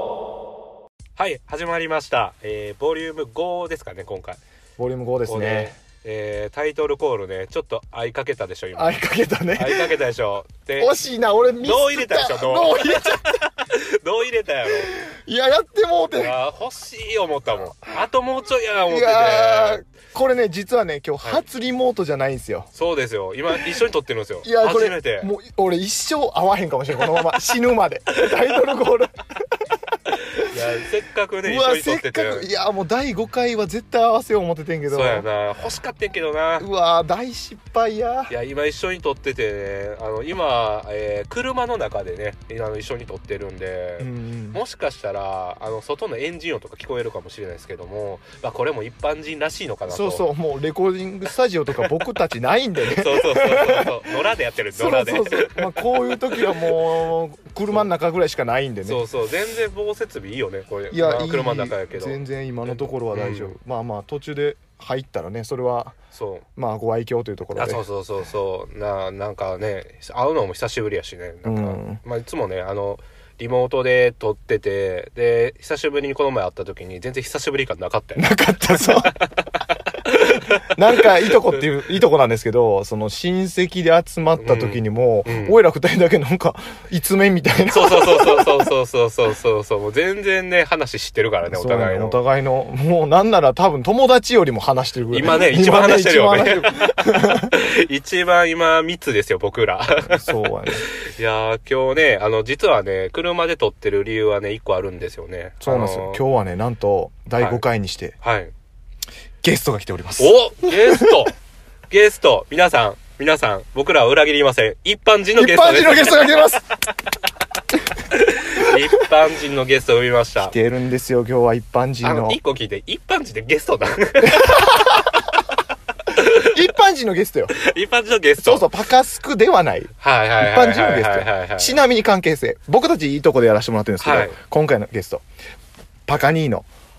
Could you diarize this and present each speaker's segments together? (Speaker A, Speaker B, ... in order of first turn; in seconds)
Speaker A: 1.2-4.4, 5.3-9.0, 9.6-10.9, 11.6-14.9, 16.2-19.8, 22.8-25.3, 30.4-32.5, 34.9-36.7, 38.3-50.2, 52.9-55.7, 58.9-63.5, 66.1-66.5, 67.6-81.5, 84.4-85.6, 87.7-92.2, 95.1-106.2, 108.2-108.5, 110.2-111.3, 111.9-116.2, 118.1-120.5, 122.0-124.9, 126.1-126.6, 127.5-128.7, 130.0-131.8, 134.0-134.4
Speaker B: 4.8-5.7, 8.8-9.9, 10.8-13.4, 15.0-16.4, 18.9-22.7, 24.4-29.1, 31.4-35.3, 36.6-38.3, 44.0-44.6, 49.9-53.9, 54.8-59.0, 60.9-66.0, 66.6-67.8, 71.5-72.0, 78.2-79.1, 80.6-88.7, 91.5-97.5, 100.1-100.8, 105.6-108.2, 109.4-111.2, 115.4-116.7, 120.5-122.4, 124.2-125.2, 126.3-127.5, 128.4-135.2, 136.1-136.7